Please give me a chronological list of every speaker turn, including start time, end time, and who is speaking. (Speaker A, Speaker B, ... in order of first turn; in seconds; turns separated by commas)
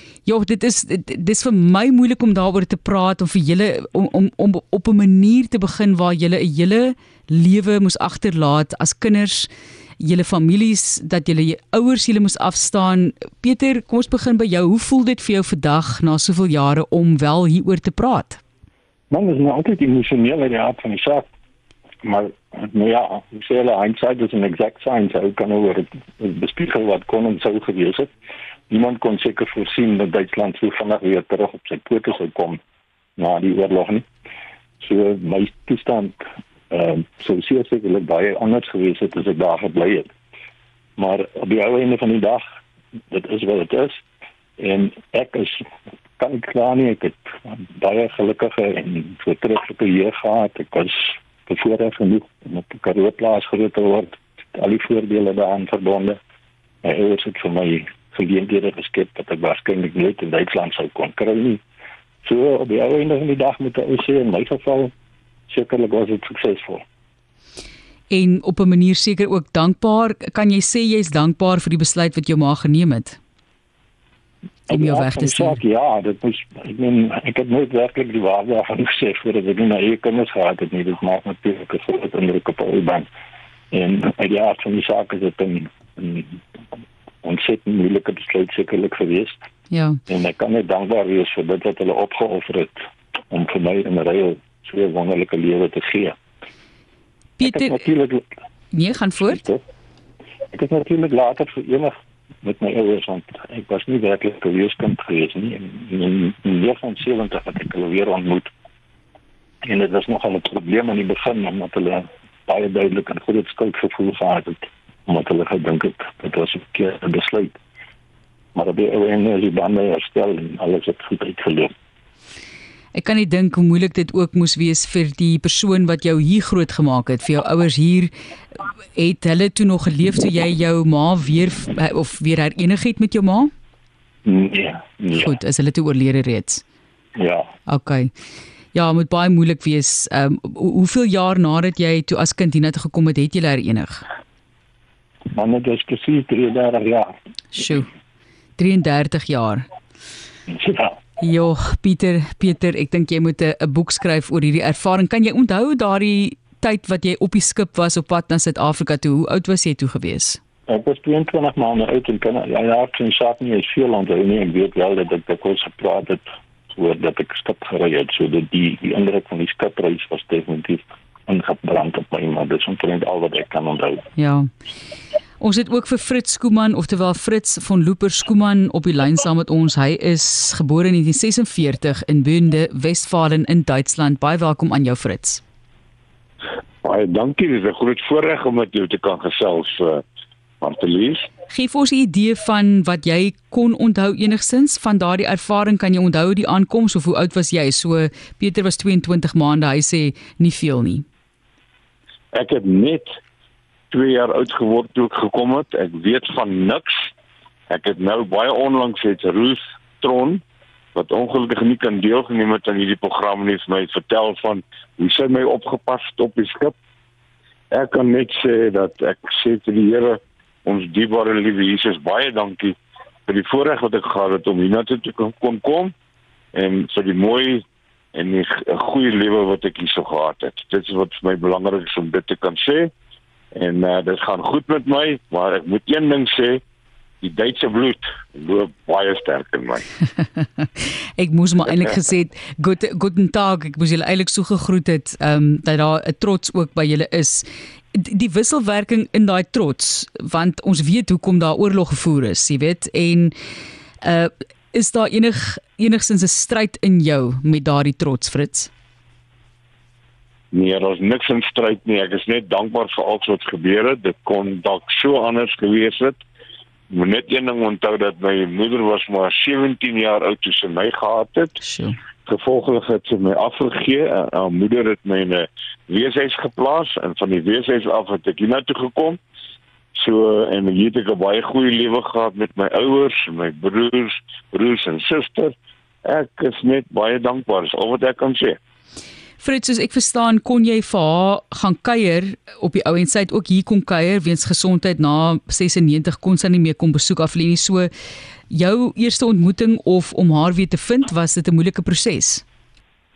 Speaker A: 0.2-9.5, Speaker A: 10.0-18.4, Speaker B: 19.1-21.3, Speaker B: 22.0-28.1, Speaker B: 28.7-32.6, Speaker B: 33.2-34.1, Speaker B: 34.8-40.1, Speaker B: 41.0-42.5, Speaker B: 43.1-44.0, Speaker B: 44.6-45.6, Speaker B: 46.2-56.2, Speaker B: 56.8-61.6, Speaker B: 62.2-64.9, Speaker B: 65.5-66.8, Speaker A: 68.1-73.2, Speaker B: 74.7-83.1, Speaker A: 74.7-75.6, Speaker B: 83.7-86.4, Speaker B: 87.2-89.4, Speaker A: 89.7-90.0, Speaker B: 90.1-92.8, Speaker B: 93.3-96.2, Speaker A: 97.4-97.8, Speaker B: 97.4-98.3, Speaker A: 98.7-99.4, Speaker B: 99.3-99.6, Speaker B: 100.5-108.5, Speaker B: 109.6-117.6, Speaker B: 118.5-121.7, Speaker A: 123.0-128.1, Speaker A: 128.9-133.5, Speaker B: 134.2-135.3, Speaker A: 135.2-136.6, Speaker B: 137.2-137.5, Speaker A: 137.7-138.1, Speaker A: 138.7-144.1, Speaker B: 145.3-147.2, Speaker A: 147.5-147.9, Speaker A: 148.6-149.7, Speaker B: 150.5-151.0, Speaker A: 151.2-160.4, Speaker B: 160.7-174.1, Speaker A: 174.2-174.5, Speaker A: 175.4-185.4, Speaker C: 186.8-190.0, Speaker C: 190.6-191.3, Speaker A: 191.5-201.1, Speaker C: 202.3-203.1, Speaker C: 203.9-207.1, Speaker C: 207.7-210.4, Speaker C: 210.9-216.7, Speaker C: 217.7-225.9, Speaker C: 226.5-232.9, Speaker C: 233.5-236.6, Speaker C: 237.2-239.8, Speaker A: 240.4-253.3, Speaker A: 254.0-258.7, Speaker C: 260.5-266.2, Speaker C: 266.9-271.6, Speaker A: 271.6-272.0, Speaker C: 272.3-279.2, Speaker C: 279.9-285.5, Speaker C: 286.1-288.6, Speaker A: 289.4-297.9, Speaker A: 298.5-302.4